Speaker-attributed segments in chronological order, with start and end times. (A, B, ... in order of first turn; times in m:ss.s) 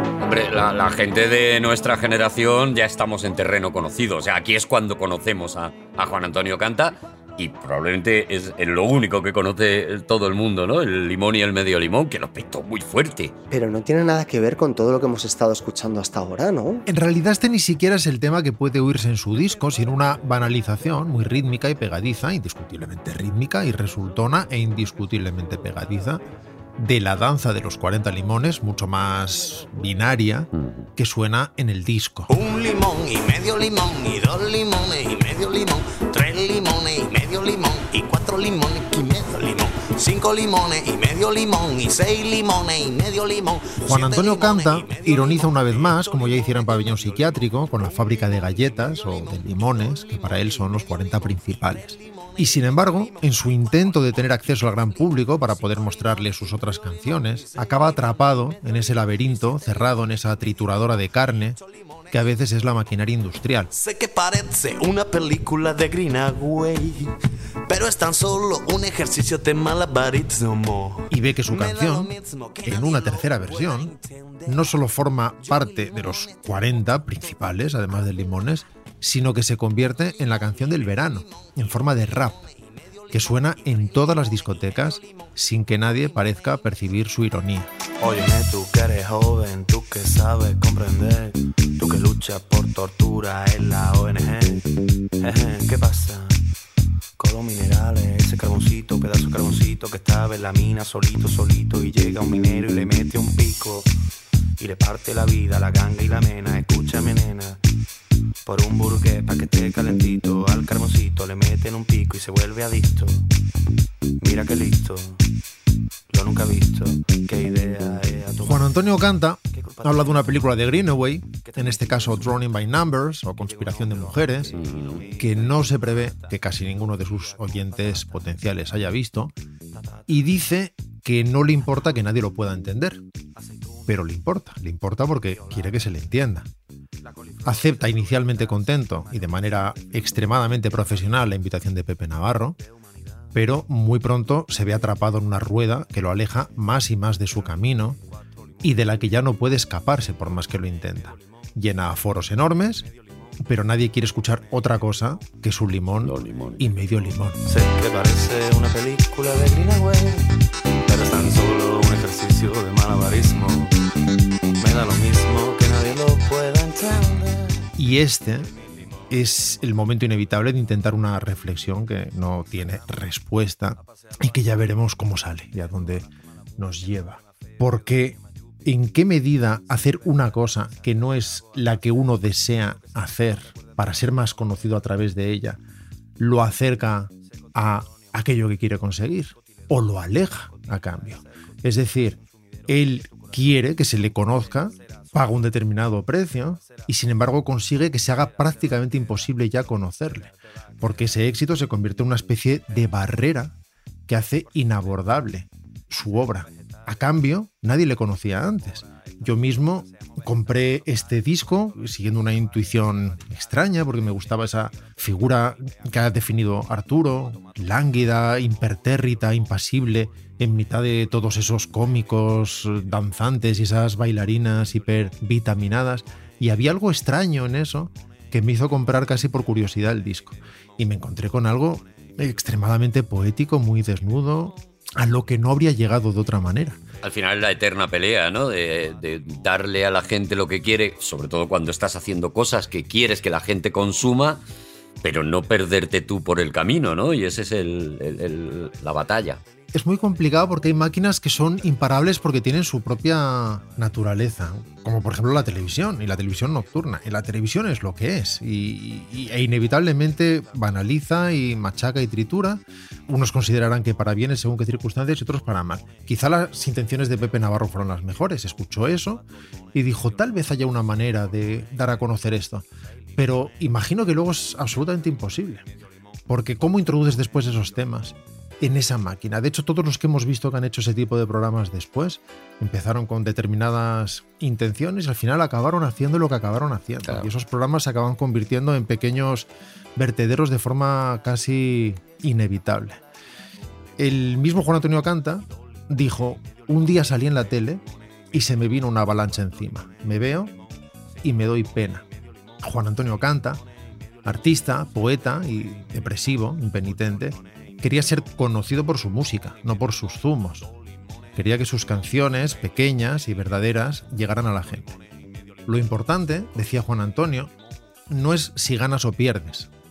0:00.2-0:13.3 A
0:13.5-0:16.8 B
0:16.9-0:26.2 C
0:26.8-0:32.3 C
0:30.5-0:30.9 A
0:32.3-0:47.0 D
0:43.8-1:01.6 C
0:52.0-0:52.3 D
1:02.1-1:03.7 C
1:03.7-1:16.4 D
1:11.1-1:14.0 C
1:14.5-1:22.4 C
1:23.1-1:27.7 C
1:28.0-1:36.4 D
1:37.2-1:43.9 D
1:44.6-1:47.6 D
1:48.5-1:53.3 D
1:54.2-1:55.2 D
1:56.1-1:58.8 D
1:58.4-2:09.3 C
1:59.5-2:00.7 D
2:01.4-2:02.5 D
2:03.4-2:08.2 D
2:04.5-2:05.1 A
2:10.1-2:13.0 C
2:13.9-2:16.5 C
2:17.4-2:22.6 C
2:23.3-2:28.0 C
2:28.6-2:32.9 C
2:33.4-2:37.4 C
2:36.0-2:36.6 A
2:37.5-2:40.3 D
2:40.9-2:43.7 D
2:44.6-2:47.7 D
2:47.8-2:48.5 C
2:49.1-3:05.6 C
3:06.2-3:23.5 C
3:24.1-3:56.8 C
3:57.0-4:04.4 A
4:05.0-4:09.4 A
4:09.7-4:32.6 C
4:33.2-4:35.7 C
4:36.3-4:53.0 C
4:54.0-5:00.5 C
5:01.2-5:02.0 C
5:02.6-5:03.6 C
5:04.2-5:10.7 C
5:11.4-5:15.0 C
5:15.7-5:17.5 C
5:18.1-5:19.7 C